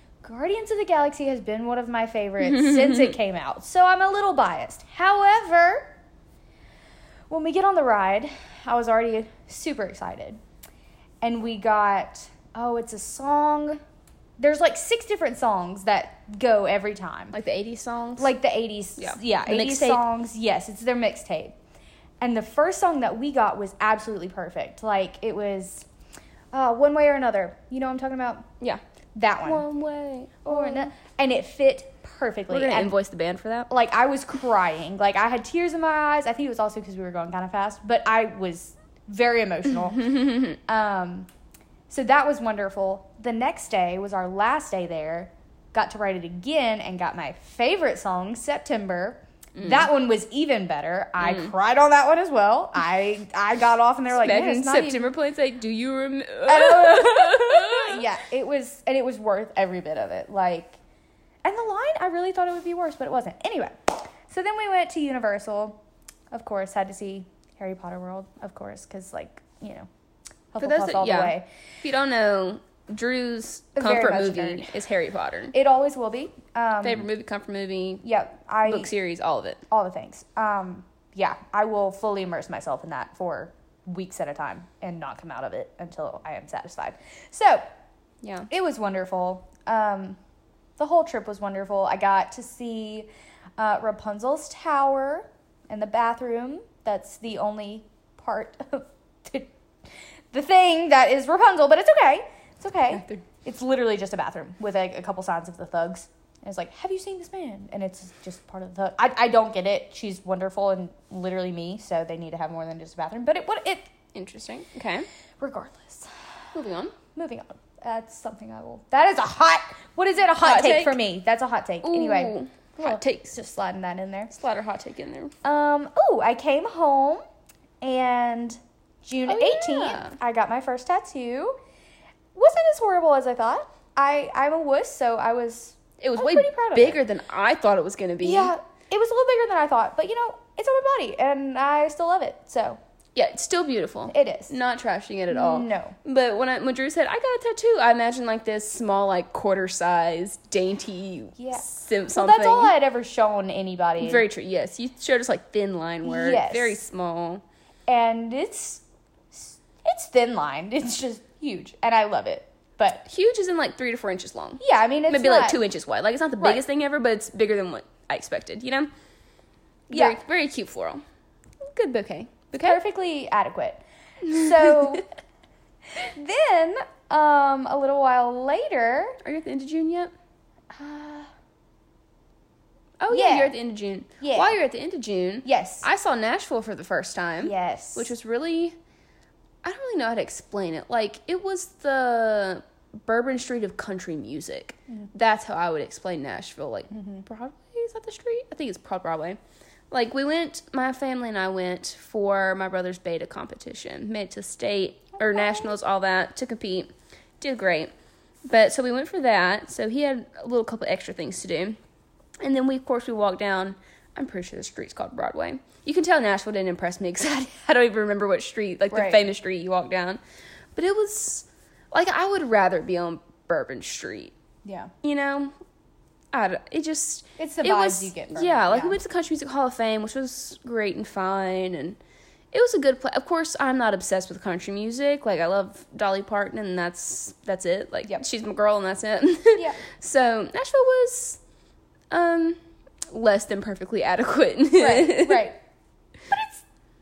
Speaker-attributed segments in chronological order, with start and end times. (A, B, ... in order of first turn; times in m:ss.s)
0:00.2-0:05.9 A
0:02.4-0:03.1 B
0:07.3-0:10.4 A
0:11.2-0:13.8 A
0:14.4-0:17.4 A
0:17.3-0:18.3 B
0:18.2-0:21.5 A
0:19.0-0:20.0 B
0:22.2-0:25.9 A
0:26.5-0:28.5 A
0:29.1-0:29.6 A
0:29.4-0:30.9 B
0:30.4-0:32.9 A
0:32.5-0:33.7 B
0:33.7-0:41.3 A
0:40.0-0:40.6 B
0:41.9-0:55.0 A
0:49.6-0:49.9 B
0:51.2-0:51.5 B
0:54.2-0:58.0 B
0:56.4-1:00.8 A
1:01.4-1:05.8 A
1:06.3-1:09.9 A
1:10.5-1:11.5 A
1:10.6-1:15.5 B
1:13.8-1:14.7 A
1:15.5-1:17.1 A
1:16.8-1:18.0 B
1:18.0-1:18.9 A
1:18.6-1:19.6 B
1:19.7-1:27.6 A
1:28.2-1:28.5 B
1:28.5-1:30.2 A
1:30.8-1:39.5 A
1:40.3-1:53.9 A
1:42.9-1:43.2 B
1:54.1-1:55.1 B
1:55.4-1:56.1 A
1:56.5-1:56.9 B
1:57.1-2:04.3 A
2:00.4-2:01.0 B
2:01.8-2:03.4 B
2:04.3-2:05.3 B
2:05.4-2:07.2 A
2:07.8-2:11.6 A
2:09.3-2:10.2 B
2:12.3-2:17.0 A
2:16.0-2:18.5 B
2:18.2-2:22.8 A
2:23.1-2:32.7 B
2:24.1-2:24.5 A
2:25.3-2:26.0 A
2:31.4-2:34.2 A
2:34.0-2:37.4 B
2:36.0-2:36.8 A
2:37.9-2:43.0 A
2:43.0-2:48.9 B
2:44.6-2:45.6 A
2:49.9-2:51.0 B
2:49.9-2:50.2 A
2:51.6-2:52.8 B
2:52.6-2:55.0 A
2:54.3-2:55.0 B
2:56.0-2:59.2 A
2:59.2-3:00.1 B
3:00.7-3:01.3 A
3:03.0-3:08.8 B
3:03.1-3:03.6 A
3:04.2-3:04.6 A
3:05.4-3:05.9 A
3:07.4-3:08.1 A
3:09.6-3:19.4 B
3:16.9-3:17.2 A
3:19.9-3:27.9 B
3:25.1-3:25.7 A
3:28.4-3:31.8 B
3:32.4-3:40.2 B
3:38.9-3:39.2 A
3:40.7-3:44.3 B
3:44.6-3:44.9 A
3:45.0-3:45.5 B
3:46.3-3:52.0 B
3:47.4-3:49.0 A
3:52.5-4:01.4 B
3:59.6-3:59.8 A
4:02.1-4:05.5 B
4:04.8-4:05.6 A
4:06.3-4:06.6 A